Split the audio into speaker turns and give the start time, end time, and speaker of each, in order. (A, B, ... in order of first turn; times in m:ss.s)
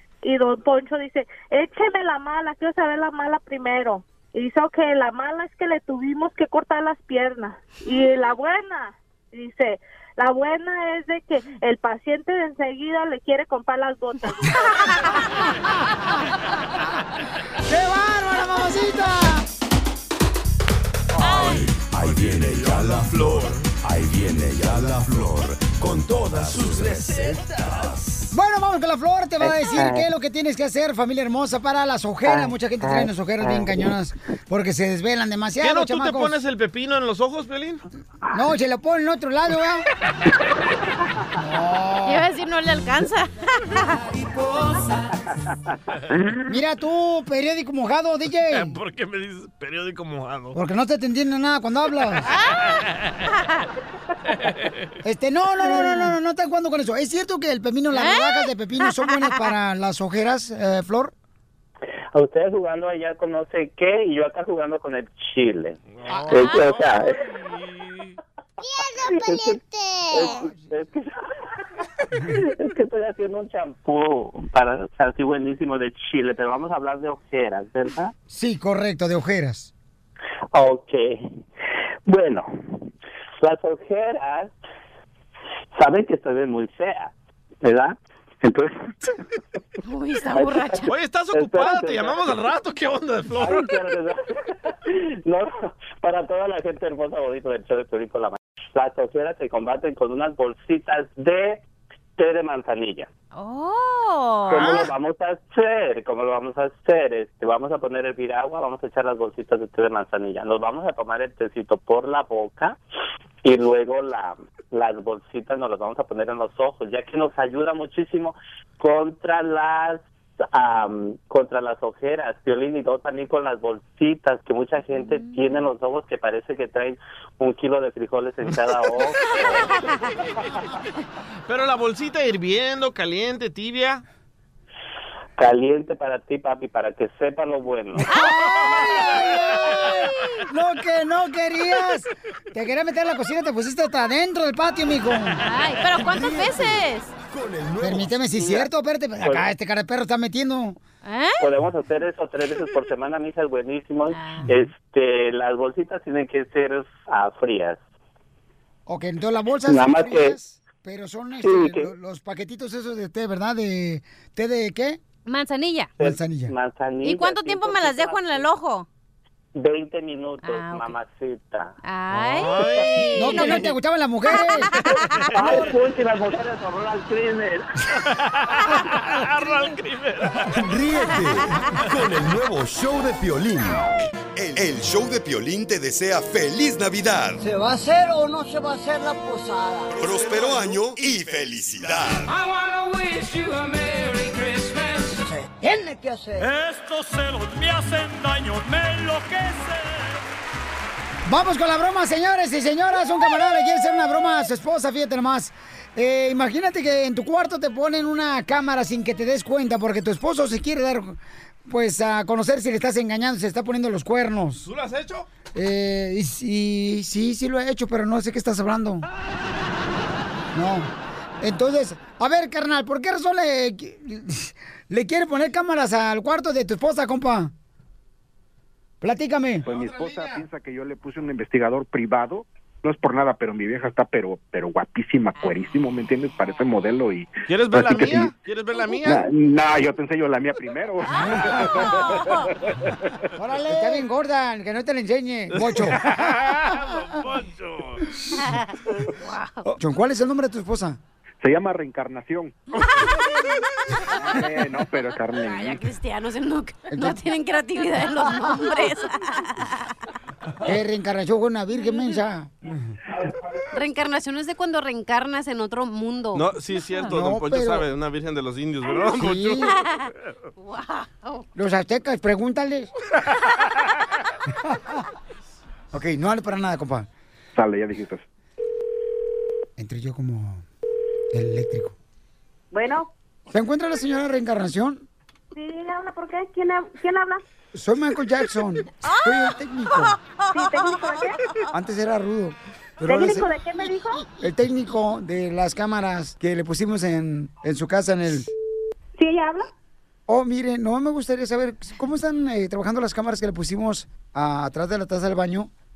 0:00.2-0:14.6 A
0:17.6-0:19.4 B
0:21.2-0:21.6 C
0:21.3-0:27.4 D
0:28.3-0:36.4 B
0:29.4-0:30.0 E
0:32.3-0:33.8 E
0:35.6-0:37.8 F
0:38.3-0:39.9 B
0:41.4-0:42.3 B
0:42.0-0:44.0 C
0:46.4-0:48.8 B
0:48.5-0:50.6 F
0:50.5-0:52.3 B
0:52.6-0:53.3 F
0:54.3-0:54.9 F
0:55.0-1:01.1 B
0:55.7-0:56.0 C
0:57.9-0:59.3 C
1:02.1-1:07.2 E
1:05.9-1:08.2 F
1:06.3-1:06.6 C
1:09.0-1:11.2 E
1:12.3-1:18.1 E
1:18.3-1:19.7 B
1:20.5-1:21.4 E
1:22.0-1:22.8 E
1:23.4-1:24.5 E
1:25.8-1:27.1 E
1:27.6-1:28.8 E
1:29.8-1:30.9 C
1:30.3-1:32.5 E
1:30.9-1:33.8 F
1:33.3-1:41.6 E
1:42.2-1:43.1 E
1:43.3-1:44.8 C
1:44.5-1:52.8 E
1:53.4-2:09.7 E
2:11.5-2:14.0 F
2:15.4-2:18.1 E
2:18.0-2:25.4 B
2:18.1-2:18.8 C
2:25.4-2:27.1 C
2:26.0-2:28.1 D
2:27.8-2:30.8 B
2:28.4-2:28.7 E
2:29.2-2:29.5 E
2:31.0-2:31.4 C
2:31.4-2:37.8 E
2:34.1-2:34.5 C
2:38.9-2:45.0 B
2:39.7-2:40.4 E
2:41.4-2:41.9 E
2:45.2-2:45.9 C
2:46.0-2:48.5 E
2:46.0-2:46.5 B
2:47.0-2:48.9 C
2:49.5-2:51.7 E
2:50.4-2:50.9 C
2:51.8-2:53.6 C
2:52.1-2:53.6 F
2:52.6-2:53.5 E
2:53.1-2:54.7 B
2:54.3-2:55.1 C
2:54.9-2:55.7 F
2:55.3-2:57.7 E
2:58.0-3:00.6 F
3:00.6-3:07.4 D
3:07.4-3:09.9 G
3:10.0-3:12.3 D
3:10.5-3:10.7 F
3:12.2-3:15.2 H
3:15.3-3:16.5 G
3:16.4-3:20.2 H
3:21.2-3:34.7 B
3:34.6-3:35.3 F
3:35.5-3:39.0 B
3:40.5-3:47.5 B
3:49.0-3:49.6 B
3:49.6-3:50.4 F
3:49.6-3:58.3 I
3:57.5-3:59.3 F
3:59.0-4:02.9 I
4:01.3-4:02.4 C
4:03.4-4:06.3 B
4:05.5-4:08.1 F
4:08.4-4:09.6 C
4:09.6-4:11.0 B
4:11.4-4:12.6 I
4:14.2-4:15.8 I
4:15.4-4:19.9 C
4:16.9-4:17.2 B
4:20.6-4:22.7 B
4:23.7-4:26.4 C
4:26.3-4:29.7 F
4:27.1-4:27.9 B
4:29.0-4:29.8 B
4:30.6-4:31.4 C
4:31.6-4:32.9 B
4:34.6-4:35.0 B
4:35.9-4:37.1 B
4:37.6-4:38.2 I
4:39.8-4:40.6 B
4:41.3-4:41.9 B
4:42.7-4:43.1 J
4:43.5-4:45.0 B
4:45.5-4:47.4 J
4:47.7-4:50.2 B
4:50.5-4:51.4 J
4:51.7-4:53.5 B
4:53.1-4:54.2 J
4:54.4-4:58.5 B
4:59.2-4:59.7 J
5:00.3-5:05.7 B